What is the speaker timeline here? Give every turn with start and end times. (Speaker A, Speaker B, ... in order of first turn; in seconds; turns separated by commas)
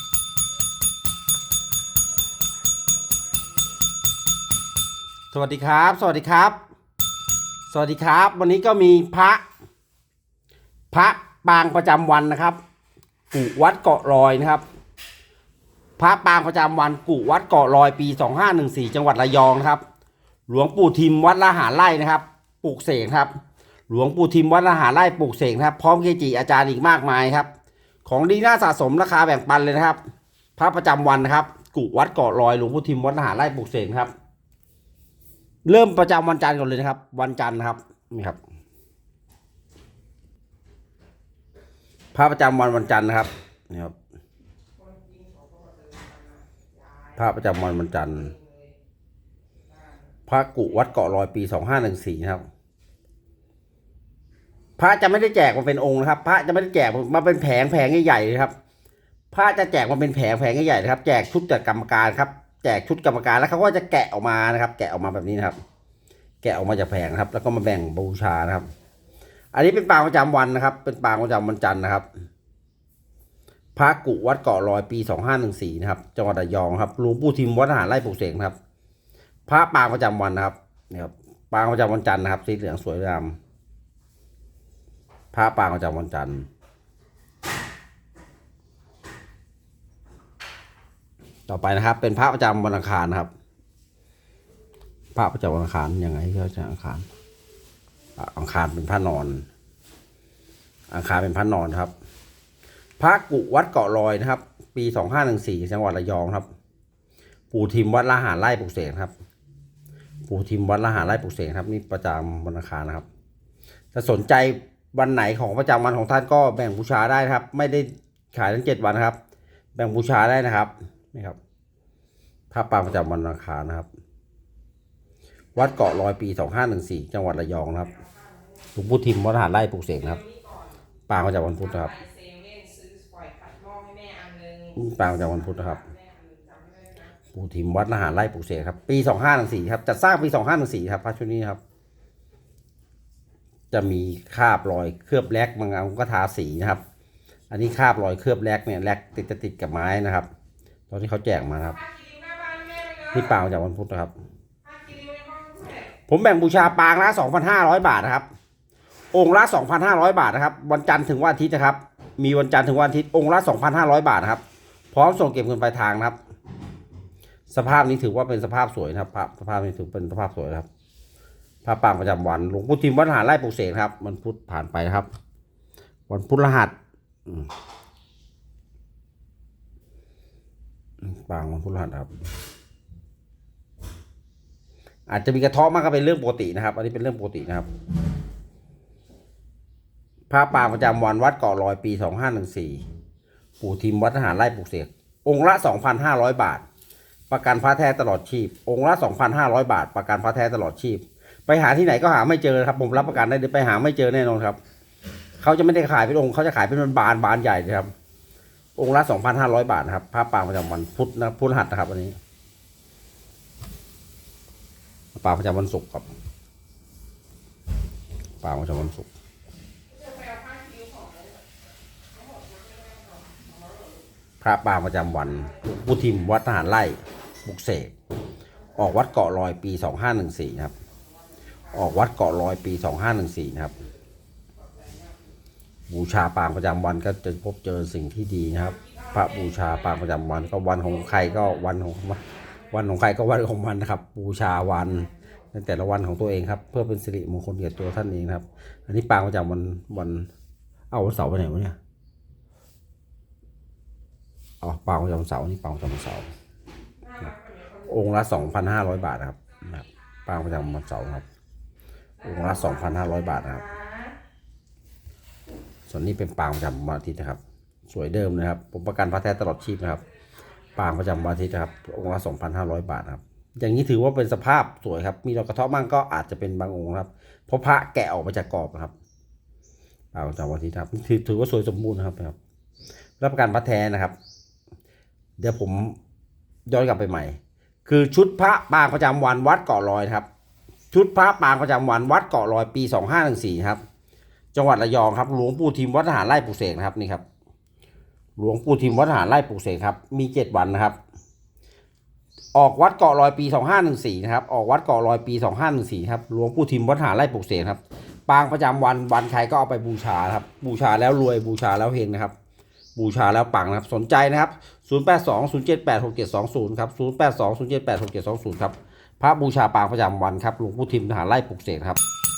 Speaker A: 1.8-3.6, Speaker B: 5.3-6.6, Speaker B: 7.7-9.4, Speaker B: 10.9-12.6, Speaker B: 13.3-14.6, Speaker B: 16.0-19.8, Speaker B: 20.5-23.3, Speaker B: 23.9-27.5, Speaker B: 28.1-30.0, Speaker B: 30.6-34.1, Speaker B: 35.6-38.4, Speaker B: 42.1-44.0, Speaker A: 44.8-47.1, Speaker B: 47.2-48.3, Speaker A: 48.3-48.7, Speaker B: 50.3-52.5, Speaker B: 54.8-58.5, Speaker B: 59.3-65.6, Speaker B: 66.4-68.7, Speaker B: 69.5-72.1, Speaker B: 73.8-78.6, Speaker B: 79.5-83.4, Speaker B: 85.3-86.5, Speaker B: 91.5-93.3, Speaker B: 95.2-97.1, Speaker B: 98.2-99.5, Speaker B: 100.9-101.9, Speaker B: 103.0-106.5, Speaker B: 107.5-109.1, Speaker B: 110.2-113.1, Speaker B: 113.9-119.2, Speaker B: 119.8-121.4, Speaker B: 122.5-123.9, Speaker B: 125.6-127.9, Speaker A: 128.0-128.4, Speaker B: 128.8-130.2, Speaker A: 130.2-130.7, Speaker B: 131.1-132.0, Speaker A: 131.9-134.8, Speaker B: 134.7-135.9, Speaker A: 135.6-137.1, Speaker B: 137.3-141.6, Speaker B: 143.7-146.8, Speaker B: 147.5-150.3, Speaker B: 150.9-151.8, Speaker A: 151.8-153.1, Speaker B: 153.1-154.1, Speaker A: 154.6-155.9, Speaker B: 156.1-158.2, Speaker B: 159.1-164.4, Speaker B: 164.9-166.2, Speaker B: 167.5-170.7, Speaker B: 171.6-175.1, Speaker B: 176.1-176.7, Speaker B: 177.3-177.5, Speaker B: 181.0-182.1, Speaker B: 185.1-187.7, Speaker B: 190.3-192.8, Speaker B: 193.6-196.7, Speaker B: 197.3-204.6, Speaker B: 205.4-207.9, Speaker B: 208.8-212.2, Speaker B: 215.2-216.1, Speaker B: 218.4-219.1, Speaker A: 219.9-221.4, Speaker A: 222.2-224.0, Speaker B: 224.4-227.9, Speaker B: 228.8-230.7, Speaker B: 231.7-233.8, Speaker A: 234.7-235.1, Speaker B: 235.9-250.3, Speaker A: 238.8-239.1, Speaker B: 250.9-251.8, Speaker B: 254.6-256.3, Speaker A: 257.0-257.9, Speaker B: 257.9-261.2, Speaker B: 262.2-263.6, Speaker A: 262.5-264.1, Speaker B: 265.9-270.0, Speaker B: 270.8-278.9, Speaker B: 280.1-282.4, Speaker B: 283.2-284.1, Speaker B: 285.4-286.0, Speaker B: 286.7-290.3, Speaker B: 290.9-293.8, Speaker B: 294.5-297.2, Speaker B: 298.4-301.0, Speaker B: 302.5-312.3, Speaker B: 313.0-322.0